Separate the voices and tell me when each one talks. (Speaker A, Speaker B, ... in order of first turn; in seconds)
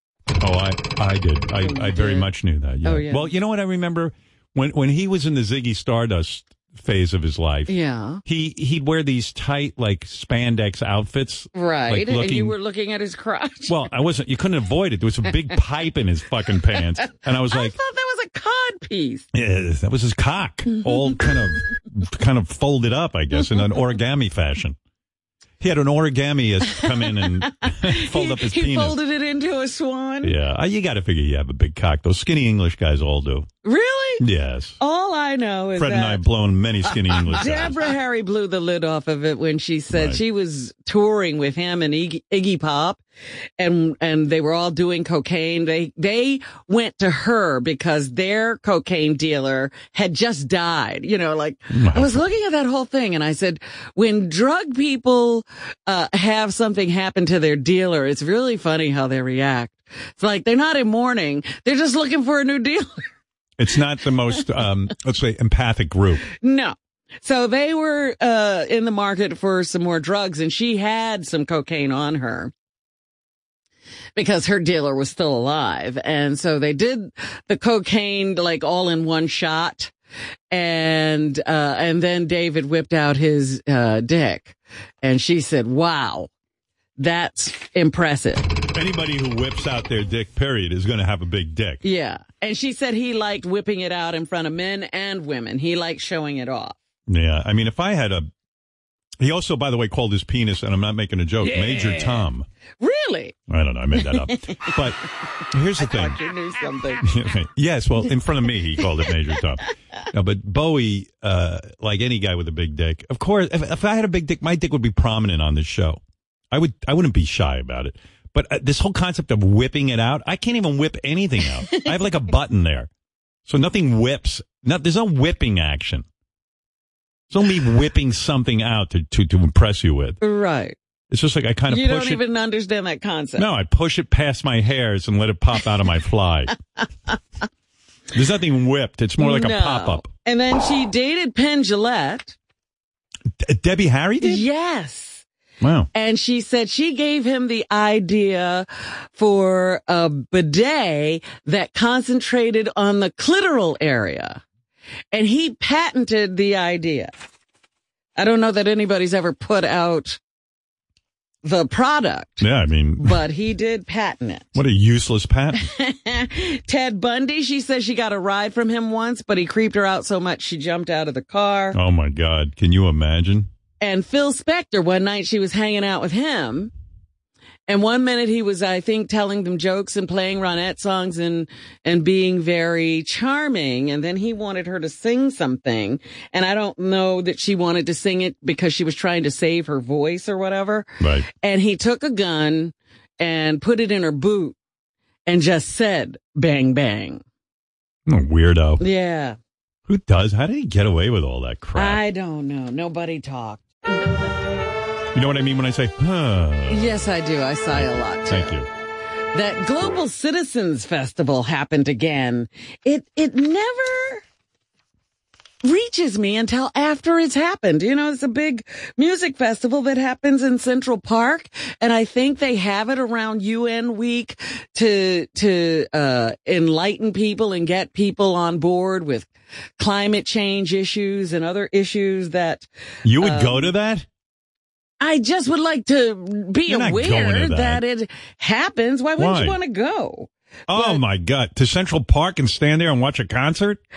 Speaker A: 0.4-12.6, 13.7-17.8, 19.3-24.8, 25.6-29.0, 30.2-33.5, 34.2-34.8, 35.8-37.8, 39.9-40.2, 51.7-52.2, 63.6-66.3, 88.7-91.8, 97.1-98.3, 99.2-102.5, 103.5-105.0, 105.5-106.2, 107.0-116.0, 116.5-122.9, 123.5-126.0, 127.3-130.2, 131.1-132.2, 133.4-136.6, 138.1-140.1, 143.4-144.4, 145.6-145.9, 162.4-163.2, 164.6-165.6, 171.7-173.5, 191.0-191.3, 198.1-198.8, 199.9-202.0, 205.1-207.1, 207.7-208.7, 233.0-234.1, 236.7-237.8, 239.2-239.6, 240.7-243.8
Speaker B: 1.6-2.3, 2.9-3.3, 7.7-8.2, 11.5-13.8, 17.5-19.3, 27.1-30.4, 33.6-34.2, 34.8-36.2, 37.1-43.0, 43.6-63.0, 66.3-72.5, 74.2-79.9, 80.5-86.3, 87.0-88.5, 91.8-96.8, 102.8-103.4, 104.0-104.7, 105.8-107.1, 130.2-130.8, 131.7-133.5, 139.2-142.3, 144.2-145.2, 145.9-154.4, 155.1-157.1, 158.2-160.2, 161.4-162.4, 163.0-164.6, 165.6-171.8, 173.8-176.7, 177.7-194.6, 195.3-197.2, 198.8-199.4, 201.8-203.9, 206.7-208.6, 209.3-214.2, 215.6-232.7, 233.2-233.7, 235.0-241.0